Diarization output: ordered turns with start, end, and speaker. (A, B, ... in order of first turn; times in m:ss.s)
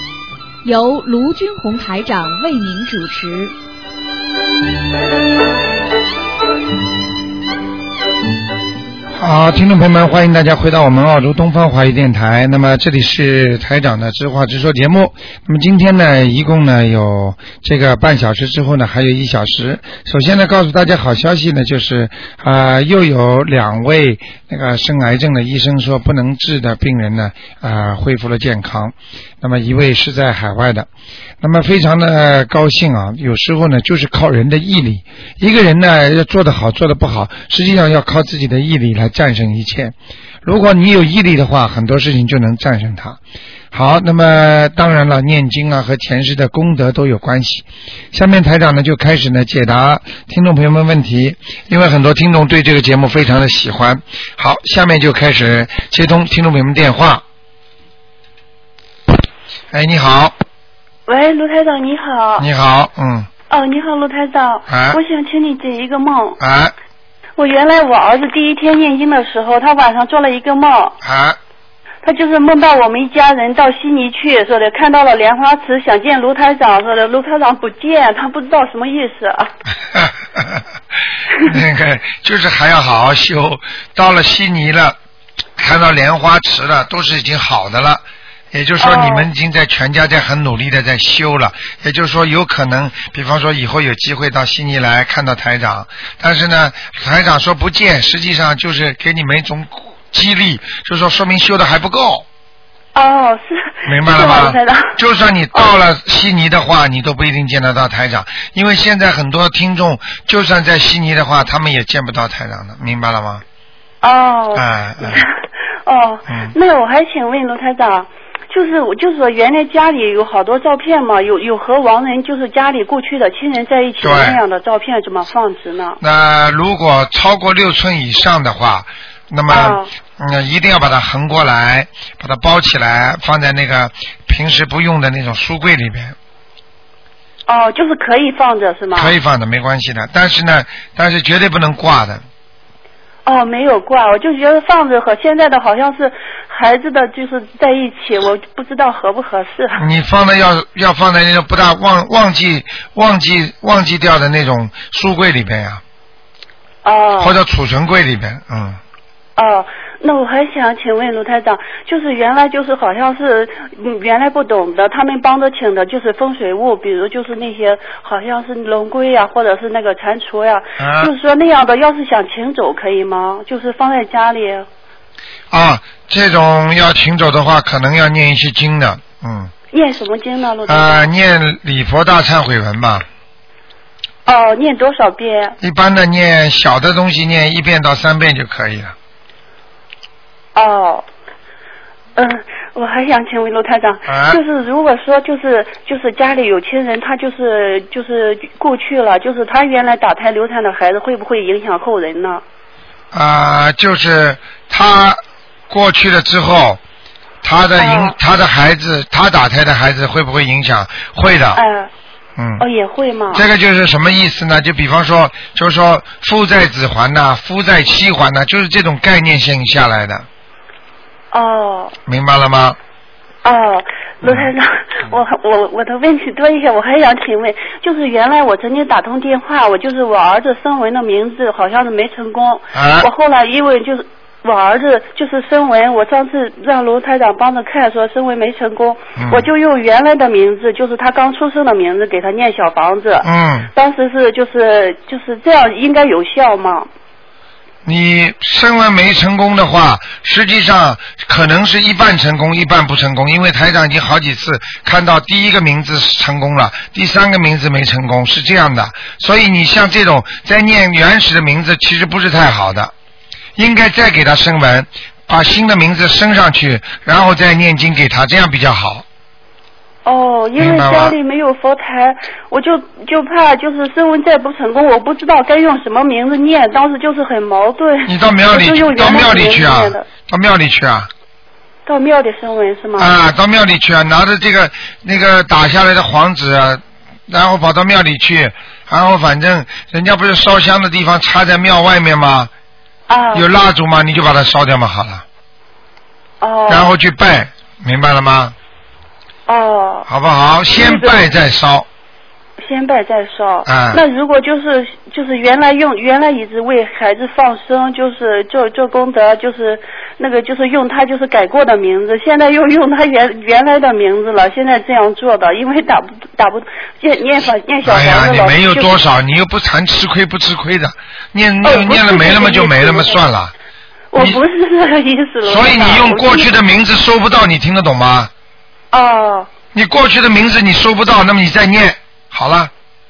0:00.6-0:03.5 A
0:09.1-0:30.9 B
0:31.4-0:39.9 B
0:40.4-0:43.2 B
0:43.7-0:57.2 B
0:59.7-1:00.3 B
1:01.1-1:02.4 C
1:02.4-1:03.3 B
1:03.5-1:06.4 C
1:04.7-1:05.0 B
1:06.4-1:06.7 B
1:07.4-1:11.0 C
1:11.0-1:11.4 B
1:12.0-1:19.5 C
1:19.9-1:20.7 B
1:21.4-1:25.0 B
1:25.6-1:42.2 B
1:28.8-1:29.3 C
1:42.9-1:45.0 C
1:43.8-1:53.4 B
1:54.0-1:55.3 C
1:54.5-1:55.2 B
1:55.8-2:06.0 C
2:04.0-2:04.4 B
2:06.0-2:16.1 B
2:09.5-2:09.9 C
2:17.5-2:19.1 C
2:18.9-2:22.2 B
2:23.2-2:29.8 C
2:29.8-2:35.8 B
2:36.8-2:37.4 C
2:37.2-2:38.8 B
2:39.4-2:54.7 C
2:50.8-2:51.1 B
2:55.5-2:59.5 B
2:59.7-3:01.1 C
3:00.7-3:03.0 B
3:04.2-3:05.6 C
3:05.6-3:08.9 B
3:10.5-3:11.0 C
3:12.2-3:22.4 C
3:14.1-3:14.4 B
3:23.1-3:26.8 B
3:27.4-3:31.6 B
3:27.8-3:28.2 C
3:31.5-3:31.9 C
3:32.4-3:32.6 B
3:32.6-3:33.4 C
3:33.3-3:40.2 B
3:41.3-3:41.9 C
3:42.1-3:42.8 B
3:43.4-4:06.9 C
3:44.2-3:44.5 B
3:52.7-3:53.1 B
3:59.2-3:59.4 B
4:03.2-4:03.7 B
4:07.8-4:22.9 B
4:23.6-4:29.0 B
4:30.0-4:40.0 C
4:30.6-4:31.2 B
4:38.0-4:41.1 B
4:41.8-4:43.1 C
4:43.0-4:52.5 B
4:53.1-4:53.5 C
4:53.3-4:55.2 B
4:56.4-4:56.9 C
4:56.7-4:58.5 B
4:59.5-5:00.1 C
5:00.1-5:01.9 B
5:00.7-5:01.2 C
5:02.6-5:18.9 C
5:03.6-5:04.0 B
5:17.8-5:23.5 B
5:21.6-5:23.2 C
5:24.1-5:26.5 C
5:25.4-5:28.3 B
5:28.9-5:29.5 C
5:29.7-5:32.7 B